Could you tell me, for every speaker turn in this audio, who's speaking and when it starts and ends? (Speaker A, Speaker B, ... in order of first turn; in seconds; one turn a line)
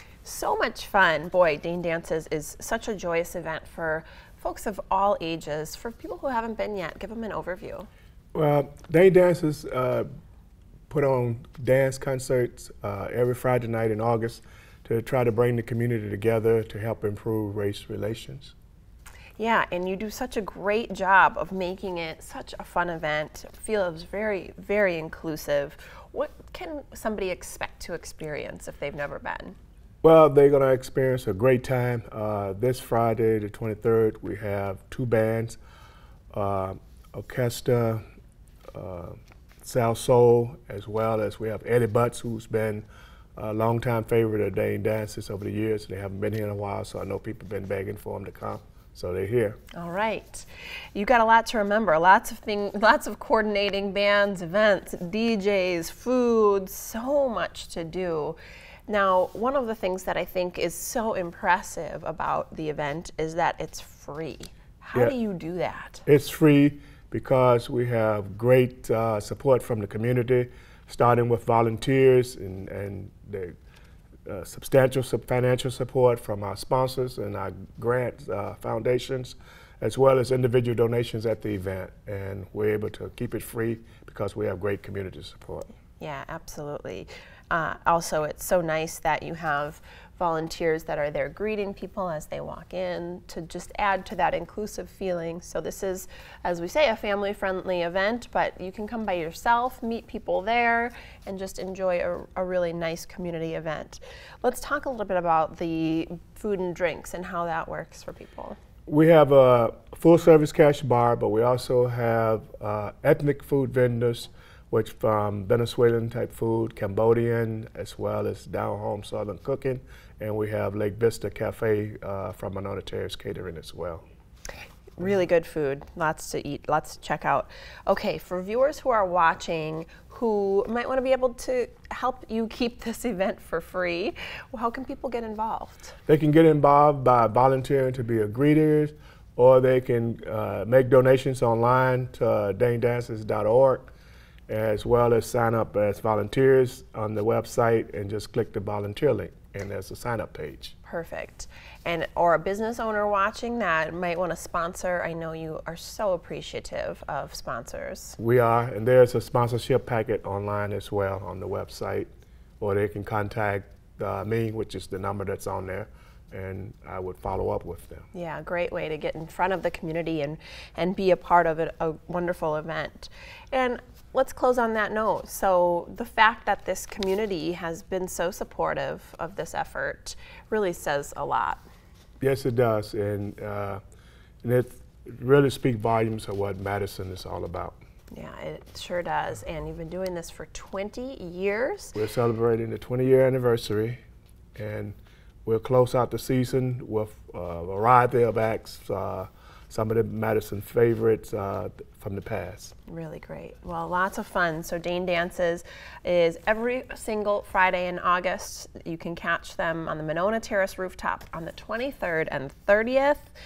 Speaker A: 0.2-7.9
Speaker B: 8.3-10.1
Speaker B: 10.9-18.5
Speaker A: 19.4-29.6
Speaker B: 30.0-35.6
Speaker B: 36.3-38.0
Speaker B: 38.7-49.6
Speaker A: 49.7-66.0
Speaker B: 66.1-73.5
Speaker B: 74.3-85.7
Speaker A: 86.0-108.6
Speaker B: 108.9-124.0
Speaker A: 125.0-135.9
Speaker B: 136.1-143.9
Speaker B: 144.5-150.7
Speaker A: 150.8-158.2
Speaker B: 158.2-168.1
Speaker A: 168.1-181.6
Speaker B: 182.2-183.8
Speaker B: 184.4-187.8
Speaker A: 188.1-192.0
Speaker B: 191.9-194.0
Speaker B: 194.6-202.7
Speaker A: 202.9-213.3